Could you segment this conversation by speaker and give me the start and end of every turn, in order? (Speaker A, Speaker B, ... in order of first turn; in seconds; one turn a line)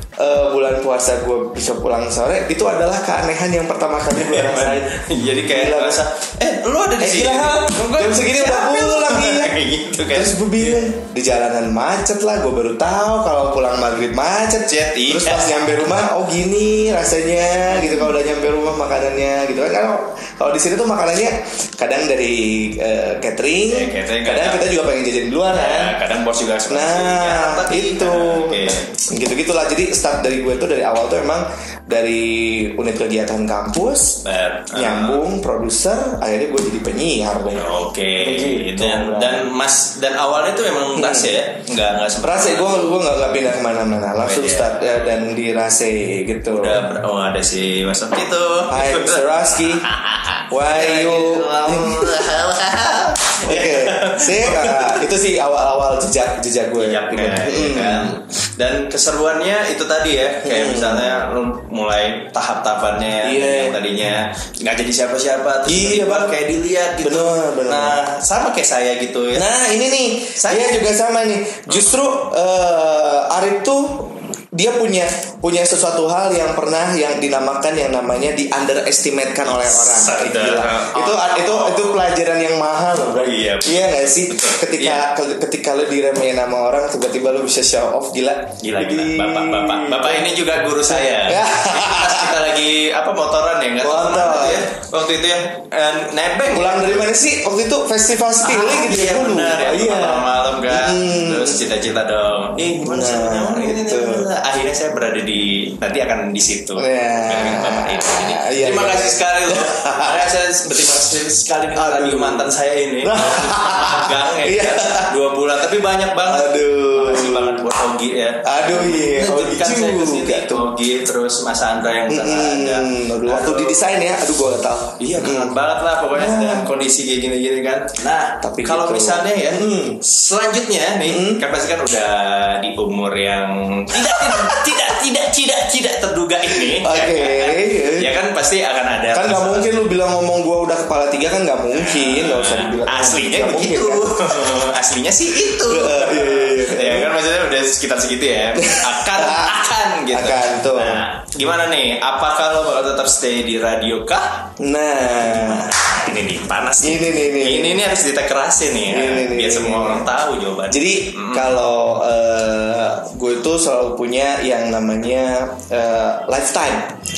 Speaker A: 0.2-6.0
Speaker B: 4.2-10.9
Speaker A: 7.0-26.0
Speaker B: 14.6-15.5
Speaker B: 23.7-24.7
Speaker B: 25.5-28.9
Speaker A: 26.6-39.5
Speaker B: 34.2-35.2
Speaker B: 37.5-43.1
Speaker A: 41.0-41.3
Speaker A: 42.2-46.9
Speaker B: 44.2-45.2
Speaker B: 46.5-55.1
Speaker A: 48.7-49.9
Speaker A: 50.5-52.3
Speaker A: 53.4-58.1
Speaker B: 56.8-69.5
Speaker A: 60.4-61.2
Speaker A: 63.2-63.8
Speaker A: 65.7-66.4
Speaker A: 67.0-68.0
Speaker A: 69.3-90.3
Speaker B: 70.4-70.8
Speaker B: 71.7-72.0
Speaker B: 79.4-82.0
Speaker B: 83.1-85.1
Speaker B: 88.6-97.1
Speaker A: 90.8-92.4
Speaker A: 93.8-94.7
Speaker A: 96.5-101.6
Speaker B: 98.4-123.9
Speaker A: 102.8-104.3
Speaker A: 106.8-110.3
Speaker A: 111.7-112.5
Speaker A: 113.0-115.2
Speaker A: 116.2-117.7
Speaker A: 118.4-120.7
Speaker A: 122.1-125.6
Speaker B: 125.0-139.7
Speaker A: 126.1-126.7
Speaker A: 128.4-130.0
Speaker A: 131.0-131.4
Speaker A: 133.9-134.9
Speaker A: 136.5-138.2
Speaker A: 139.1-144.6
Speaker B: 141.7-154.5
Speaker A: 145.4-147.2
Speaker A: 148.5-151.0
Speaker A: 154.6-155.7
Speaker B: 155.2-161.5
Speaker A: 156.8-157.9
Speaker A: 158.9-160.1
Speaker A: 160.7-166.9